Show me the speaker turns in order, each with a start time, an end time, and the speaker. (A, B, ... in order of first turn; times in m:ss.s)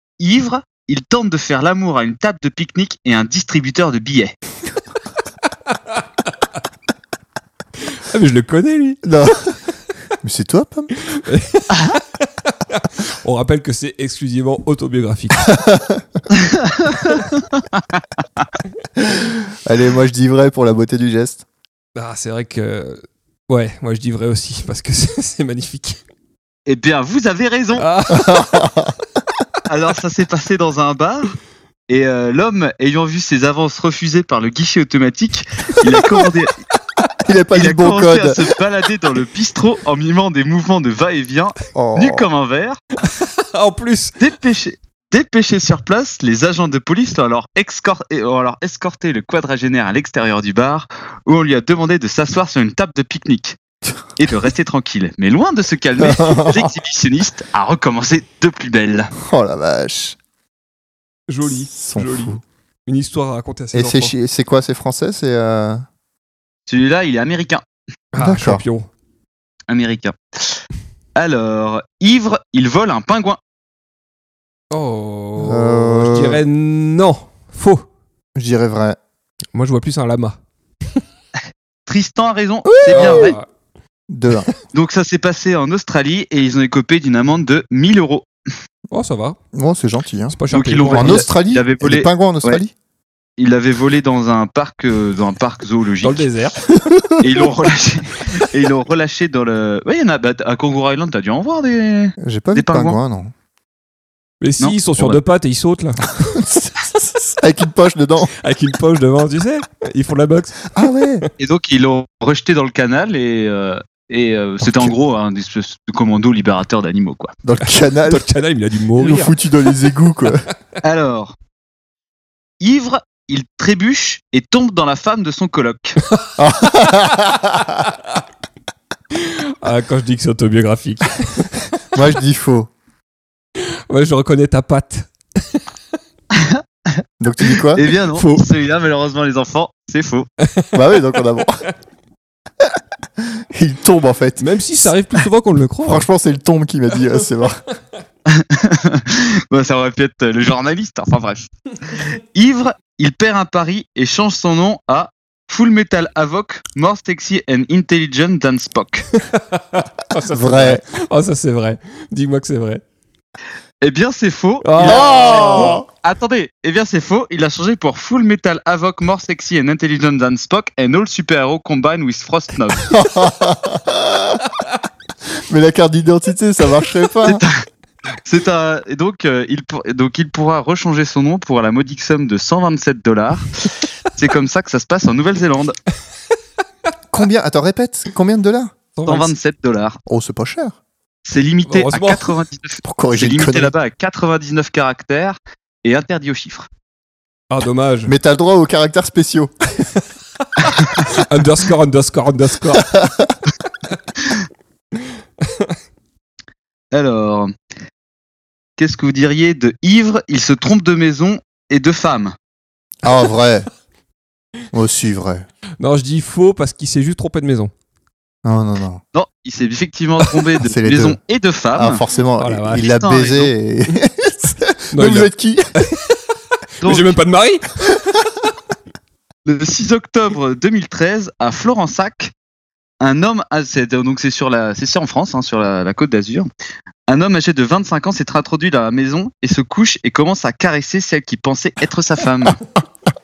0:00.2-0:04.4 A
0:05.7-0:06.0 B
0:07.8-0:09.0 B
0:09.0-0:09.6 C
0:10.2-0:10.9 C
0:11.0-0:15.5 B
0:15.5-0:16.2 C
0:19.0-0:21.4 C
0:22.0-0:26.0 B
0:26.7-0:27.8 A
0:27.8-0:28.6 B
0:28.1-0:29.0 C
0:29.7-0:31.3 A
0:31.9-0:36.6 A
0:37.2-0:38.4 C
0:37.5-0:42.8 A
0:41.7-0:42.3 C
0:43.0-0:44.2 B
0:44.2-0:53.6 A
0:54.2-0:59.1 A
0:56.0-0:56.7 C
0:59.2-1:00.2 C
1:01.3-1:04.1 B
1:01.5-1:02.4 C
1:03.7-1:05.8 C
1:06.7-1:07.6 A
1:08.1-1:08.9 B
1:08.2-1:08.6 C
1:09.7-1:10.6 A
1:11.2-1:13.4 A
1:14.7-1:17.8 B
1:15.4-1:16.4 C
1:18.4-1:19.0 C
1:19.5-1:20.4 B
1:21.9-1:23.4 A
1:22.7-1:23.3 C
1:22.8-1:23.5 B
1:24.1-1:24.5 C
1:24.7-1:28.3 A
1:28.9-1:29.4 B
1:29.5-1:30.4 C
1:30.3-1:31.3 B
1:30.5-1:32.6 A
1:30.9-1:32.7 C
1:33.4-1:36.3 A
1:36.0-1:36.6 B
1:36.7-1:37.2 C
1:37.2-1:43.0 A
1:42.2-1:43.3 C
1:44.4-1:46.4 B
1:44.6-1:45.2 A
1:46.1-1:48.3 C
1:48.4-1:50.8 B
1:50.7-1:51.3 C
1:51.4-1:57.3 A
1:54.6-1:54.9 C
1:57.4-1:58.3 C
1:57.6-1:59.3 B
1:59.0-2:00.4 C
2:00.8-2:01.3 A
2:02.6-2:06.0 A
2:06.4-2:07.9 C
2:09.1-2:11.7 B
2:11.9-2:12.7 C
2:13.6-2:15.6 B
2:16.3-2:16.6 A
2:17.2-2:17.8 C
2:17.7-2:20.3 A
2:18.1-2:18.4 B
2:20.4-2:20.7 B
2:20.7-2:21.6 C
2:22.6-2:24.4 C
2:24.4-2:26.0 B
2:25.8-2:27.6 C
2:28.3-2:39.1 A
2:39.2-2:42.8 B
2:40.3-2:40.8 C
2:43.8-2:52.9 A
2:44.6-2:45.8 B
2:44.8-2:45.8 C
2:52.9-2:54.4 C
2:55.5-2:57.4 C
2:57.2-2:57.6 A
2:58.2-3:05.8 A
3:07.1-3:08.7 C
3:09.0-3:09.3 B
3:09.1-3:10.0 A
3:10.0-3:10.8 C
3:11.2-3:16.7 A
3:11.6-3:12.3 B
3:12.8-3:13.7 C
3:17.5-3:18.1 B
3:18.1-3:19.9 C
3:20.9-3:22.9 B
3:22.8-3:23.4 C
3:25.5-3:25.8 B
3:26.9-3:27.5 A
3:28.8-3:32.3 A
3:33.0-3:33.7 C
3:34.7-3:35.4 C
3:35.8-3:37.7 B
3:38.4-3:39.0 C
3:39.1-3:42.0 A
3:40.6-3:41.2 C
3:41.7-3:45.9 C
3:42.4-3:42.9 B
3:42.8-3:43.5 A
3:44.9-3:47.9 B
3:46.8-3:47.2 A
3:49.4-3:52.3 A
3:53.0-3:56.5 A
3:57.1-4:02.6 A